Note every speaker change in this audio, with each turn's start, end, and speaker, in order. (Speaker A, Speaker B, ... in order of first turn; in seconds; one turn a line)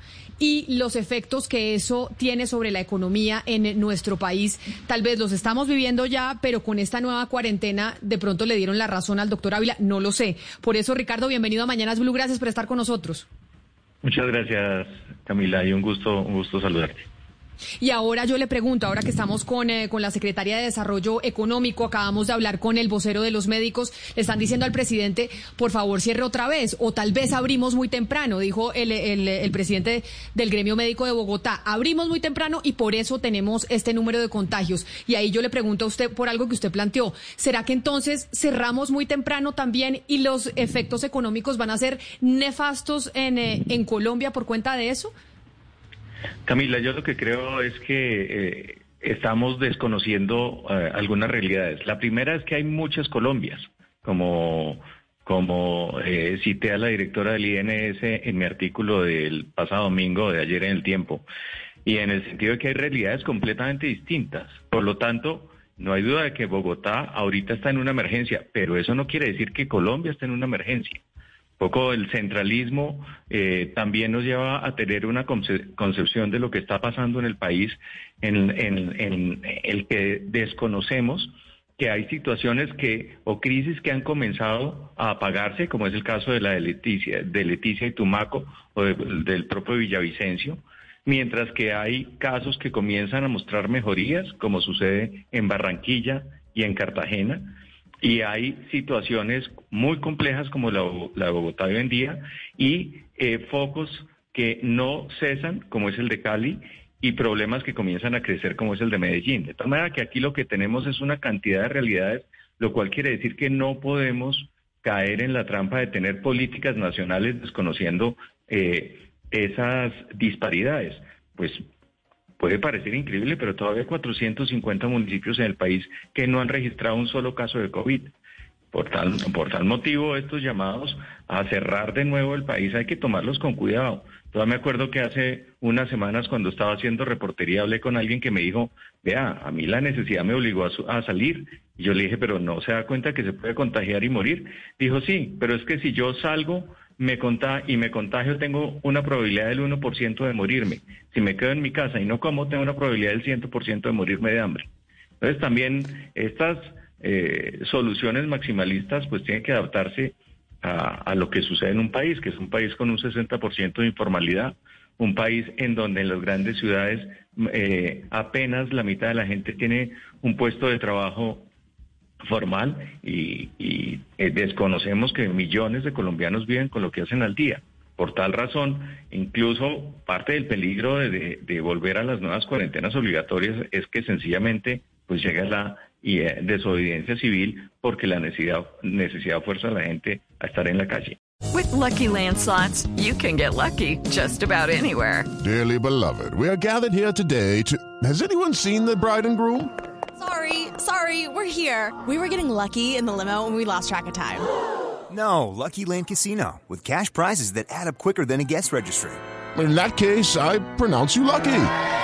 Speaker A: 0.4-13.3
Speaker B: 14.0-17.1
Speaker A: 17.8-45.1
Speaker B: 46.5-61.3
Speaker B: 61.9-71.0
Speaker B: 71.6-121.6
Speaker B: 122.4-128.1
Speaker B: 128.7-154.7
Speaker B: 155.2-171.5
Speaker B: 172.3-191.2
Speaker C: 191.5-195.3
Speaker D: 195.4-199.7
Speaker E: 200.2-204.5
Speaker F: 205.2-209.2
Speaker D: 209.6-211.7